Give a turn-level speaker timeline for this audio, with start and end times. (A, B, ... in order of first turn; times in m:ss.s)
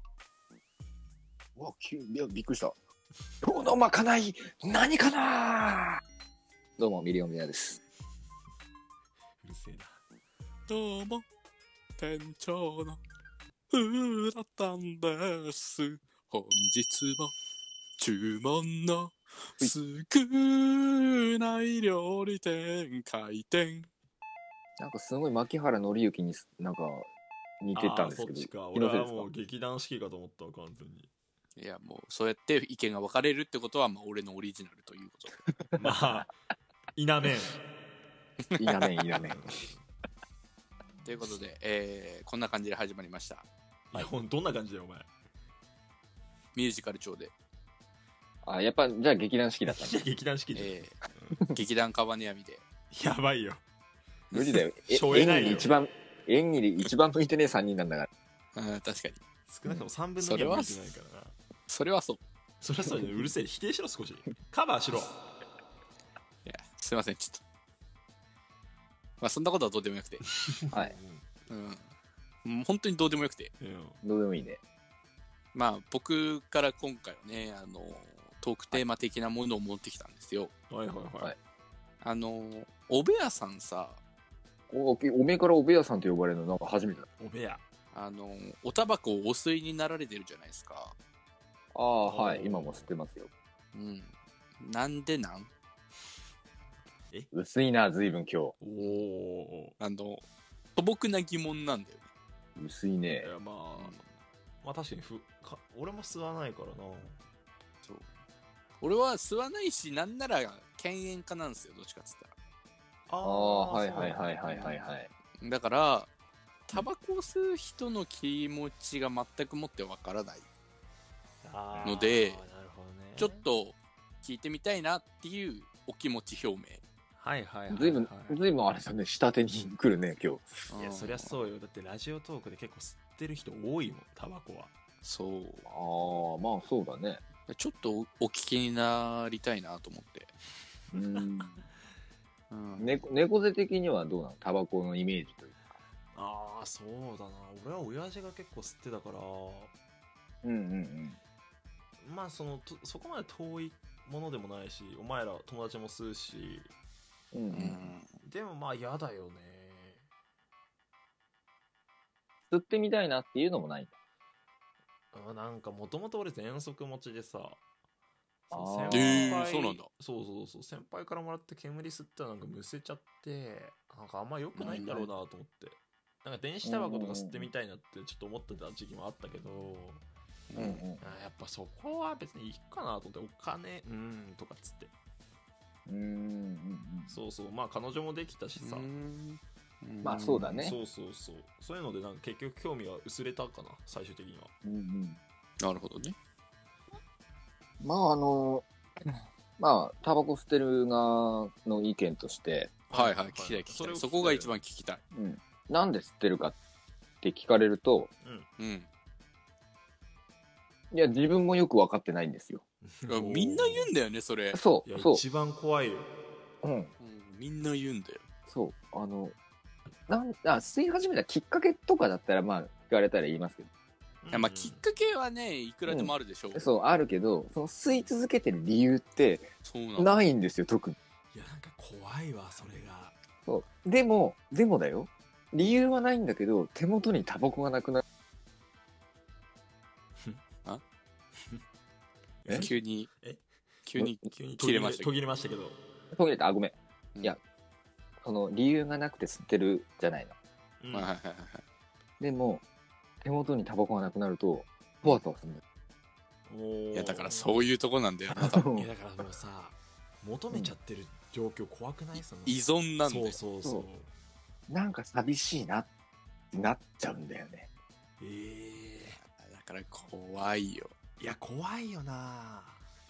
0:01.6-0:02.8 A
0:03.4-0:06.0 A
0:06.8-0:07.8 A
0:09.4-0:10.0 B
0:10.7-0:11.2 C
0:12.0-0:13.0 C
0:13.7-0:17.3 C
0:18.0-0:23.9 C
0:24.8-0:27.1 A
0:27.6-0:29.3 A
0:27.8-0:31.1 B
0:31.6-0:35.4 C
0:35.5-0:36.0 A
0:35.8-0:36.3 B
0:37.0-0:37.6 B
0:38.5-0:39.0 C
0:38.6-0:39.5 A
0:39.3-0:39.8 B
0:41.0-0:43.5 C
0:43.9-0:45.1 B
0:46.6-0:47.3 C
0:48.4-0:50.0 A
0:49.7-0:51.4 B
0:50.6-0:51.0 C
0:51.5-0:52.6 C
0:52.9-0:53.6 B
0:54.3-0:54.6 C
0:54.3-0:58.1 A
0:54.9-0:55.7 B
0:58.6-0:59.2 C
0:59.5-1:01.4 B
1:00.2-1:00.9 C
1:01.7-1:02.2 C
1:02.6-1:05.1 B
1:06.5-1:07.4 C
1:09.2-1:10.3 C
1:10.5-1:11.2 B
1:11.5-1:11.8 C
1:12.4-1:13.5 C
1:13.6-1:14.0 B
1:14.0-1:14.6 A
1:15.5-1:20.5 C
1:20.7-1:21.4 B
1:22.0-1:24.0 C
1:24.7-1:27.1 A
1:27.2-1:27.6 B
1:27.9-1:31.0 C
1:31.7-1:33.3 A
1:32.0-1:32.9 B
1:33.7-1:35.5 C
1:37.3-1:38.6 A
1:38.6-1:39.8 B
1:39.8-1:40.2 C
1:40.8-1:42.0 C
1:42.6-1:43.3 A
1:43.2-1:44.0 B
1:43.8-1:44.0 C
1:44.6-1:47.2 B
1:48.8-1:52.3 C
1:53.1-1:54.9 B
1:53.2-1:55.1 A
1:55.4-1:56.1 C
1:56.7-2:00.5 C
2:01.4-2:03.5 B
2:01.8-2:02.4 C
2:03.2-2:06.8 C
2:07.2-2:08.4 B
2:07.7-2:10.7 A
2:10.7-2:11.4 C
2:10.8-2:14.7 B
2:15.0-2:15.7 C
2:15.7-2:17.2 A
2:17.5-2:20.3 C
2:20.9-2:21.6 A
2:22.5-2:23.1 C
2:22.8-2:25.7 A
2:26.2-2:29.7 B
2:30.4-2:31.2 A
2:32.0-2:36.7 B
2:37.3-2:37.9 A
2:37.5-2:38.1 C
2:38.2-2:40.0 B
2:42.5-2:43.9 A
2:45.1-2:47.6 B
2:48.5-3:00.0 B
2:48.5-2:49.5 A
2:48.9-2:49.9 C
2:54.6-2:55.1 C
2:54.7-2:55.1 A
2:56.6-2:57.5 A
3:00.5-3:00.8 C
3:00.6-3:01.0 A
3:01.0-3:04.9 B
3:05.9-3:07.2 A
3:07.1-3:08.9 B
3:08.6-3:10.7 C
3:10.0-3:10.8 A
3:10.6-3:14.5 B
3:14.6-3:15.2 A
3:15.6-3:16.2 C
3:17.8-3:22.7 A
3:22.9-3:24.6 B
3:22.9-3:25.0 C
3:25.1-3:26.6 A
3:27.2-3:28.1 A
3:28.2-3:28.5 B
3:28.6-3:28.9 C
3:30.9-3:32.6 A
3:32.8-3:33.9 B
3:33.1-3:34.6 C
3:34.5-3:35.2 A
3:34.8-3:36.1 B
3:36.6-3:36.9 A
3:37.0-3:38.3 C
3:38.5-3:39.4 A
3:40.1-3:43.7 A
3:44.2-3:44.8 B
3:44.3-3:46.7 C
3:45.9-3:51.0 A
3:49.6-3:50.2 C
3:51.3-3:53.2 B
3:53.5-3:58.0 A
4:02.4-4:03.4 B
4:02.5-4:03.1 C
4:03.9-4:05.1 C
4:04.2-4:05.8 B
4:06.1-4:07.4 A
4:08.2-4:10.4 A
4:10.8-4:11.1 B
4:10.9-4:11.6 C
4:12.2-4:12.6 A
4:13.2-4:15.6 A
4:16.5-4:17.7 B
4:16.9-4:18.6 C
4:18.3-4:18.9 A
4:18.6-4:24.1 B
4:22.2-4:23.4 C
4:24.7-4:25.9 A
4:26.5-4:27.7 A
4:28.2-4:29.2 B
4:29.4-4:30.9 C
4:31.2-4:32.8 B